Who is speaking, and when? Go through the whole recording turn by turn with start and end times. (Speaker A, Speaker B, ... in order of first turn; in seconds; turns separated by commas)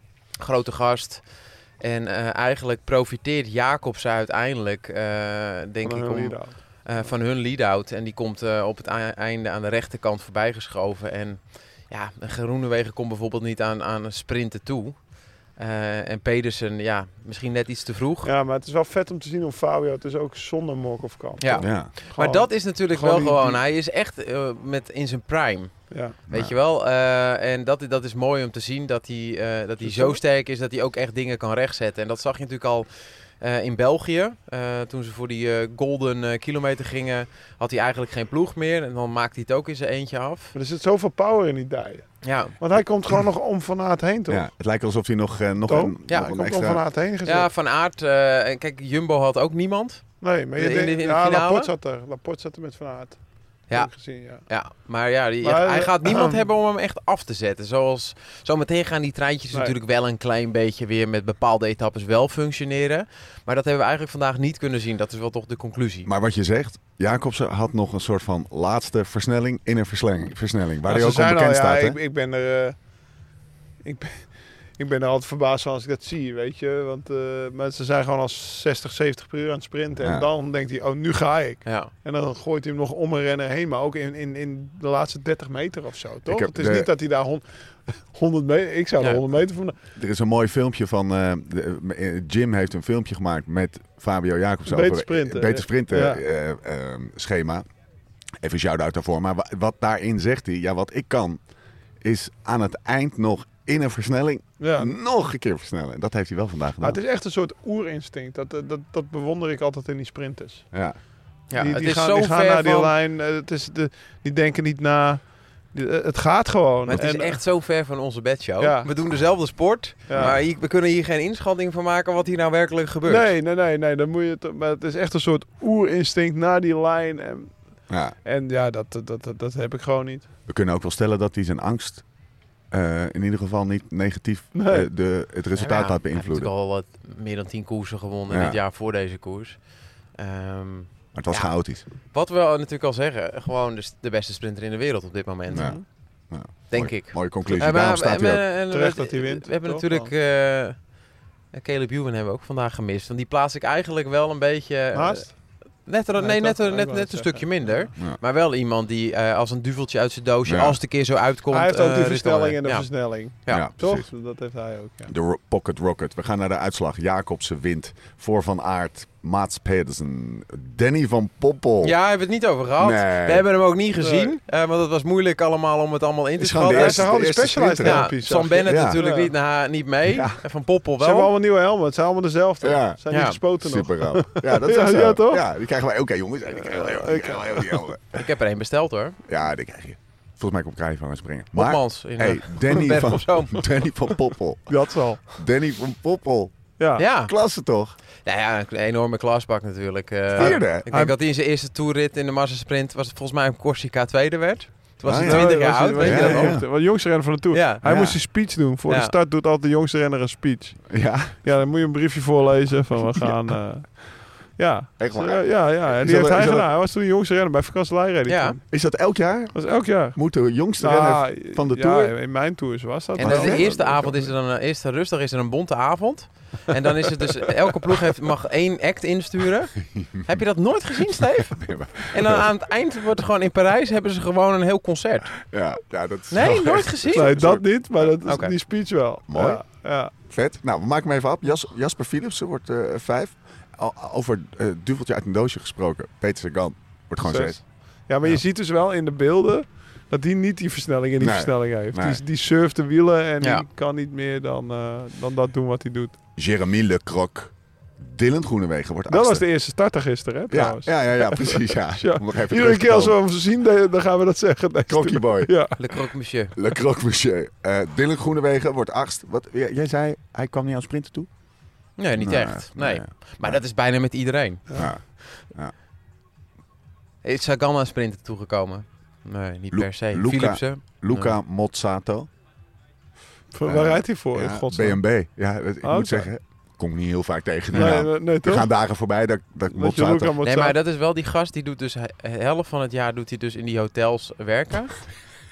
Speaker A: 0.4-1.2, Speaker A: 1.8-18.3, Speaker B: 5.8-6.8, Speaker B: 18.2-23.6, Speaker A: 21.4-40.5, Speaker C: 21.6-21.9, Speaker B: 25.9-26.1, Speaker B: 29.8-30.2, Speaker B: 40.5-44.5, Speaker A: 42.2-42.5, Speaker C: 44.3-46.8, Speaker B: 45.7-47.5, Speaker A: 47.2-51.7, Speaker B: 50.2-54.5, Speaker A: 53.7-66.1, Speaker B: 55.4-56.4, Speaker C: 66.0-72.0, Speaker B: 70.8-72.8, Speaker B: 73.8-89.7, Speaker C: 80.0-80.3, Speaker A: 81.6-81.9, Speaker C: 86.3-86.9, Speaker C: 89.9-97.6, Speaker B: 94.7-96.2, Speaker C: 98.4-101.4, Speaker C: 102.0-107.0, Speaker B: 104.6-104.9, Speaker B: 106.8-110.7, Speaker C: 110.7-111.0, Speaker A: 111.5-112.9, Speaker B: 111.5-117.4, Speaker A: 116.9-123.3, Speaker B: 118.6-118.9, Speaker B: 120.1-120.3, Speaker C: 120.1-120.4, Speaker B: 123.0-130.3, Speaker C: 127.9-128.2, Speaker C: 130.5-132.1, Speaker C: 132.7-136.5, Speaker B: 134.5-134.9, Speaker A: 135.5-145.9, Speaker C: 138.3-138.6, Speaker C: 141.1-141.8, Speaker C: 145.5-148.4, Speaker B: 145.5-145.8, Speaker A: 146.7-151.0, Speaker B: 148.7-150.1, Speaker A: 151.5-162.9, Speaker B: 154.9-155.6, Speaker B: 156.2-157.9, Speaker C: 160.5-160.8, Speaker B: 161.5-165.1, Speaker C: 163.5-164.1, Speaker C: 165.1-171.9, Speaker A: 171.8-177.1, Speaker C: 172.8-173.5, Speaker B: 174.0-174.3, Speaker C: 176.4-178.1, Speaker B: 176.7-179.3, Speaker A: 177.8-181.3, Speaker C: 178.6-179.0, Speaker C: 180.1-180.4, Speaker B: 181.0-185.4, Speaker C: 182.6-188.2, Speaker A: 183.1-183.4, Speaker B: 186.5-187.8, Speaker A: 188.1-189.2, Speaker C: 189.3-194.8, Speaker A: 191.5-193.7, Speaker B: 194.7-195.4, Speaker C: 195.4-197.9, Speaker B: 196.8-197.0, Speaker A: 197.0-197.3, Speaker A: 198.2-206.6, Speaker C: 200.3-200.9, Speaker B: 200.3-201.2, Speaker C: 205.0-206.7, Speaker B: 205.2-218.7, Speaker A: 207.5-207.8, Speaker C: 207.8-208.2, Speaker A: 208.9-209.1, Speaker C: 210.9-211.3, Speaker C: 215.0-216.7, Speaker A: 218.3-218.6, Speaker C: 218.7-222.1, Speaker B: 219.5-220.2, Speaker B: 220.8-224.3, Speaker C: 223.2-223.7, Speaker A: 223.2-235.4, Speaker C: 229.9-230.3, Speaker C: 231.1-232.5, Speaker C: 235.4-238.1, Speaker A: 236.3-237.3, Speaker B: 237.1-240.1, Speaker A: 238.2-238.5, Speaker C: 239.3-239.6, Speaker C: 240.2-247.6, Speaker B: 247.2-256.2, Speaker C: 251.2-252.2, Speaker C: 256.4-259.4, Speaker B: 259.1-265.8, Speaker C: 260.5-263.1, Speaker C: 264.9-265.6, Speaker A: 265.8-266.5, Speaker C: 266.5-271.3, Speaker A: 272.0-275.4, Speaker C: 272.2-273.6, Speaker C: 274.7-275.7, Speaker A: 277.2-281.4, Speaker C: 279.7-282.3, Speaker B: 283.5-285.0, Speaker C: 283.6-290.4, Speaker B: 285.8-286.3, Speaker B: 287.7-288.7, Speaker B: 289.7-290.8, Speaker A: 290.4-295.1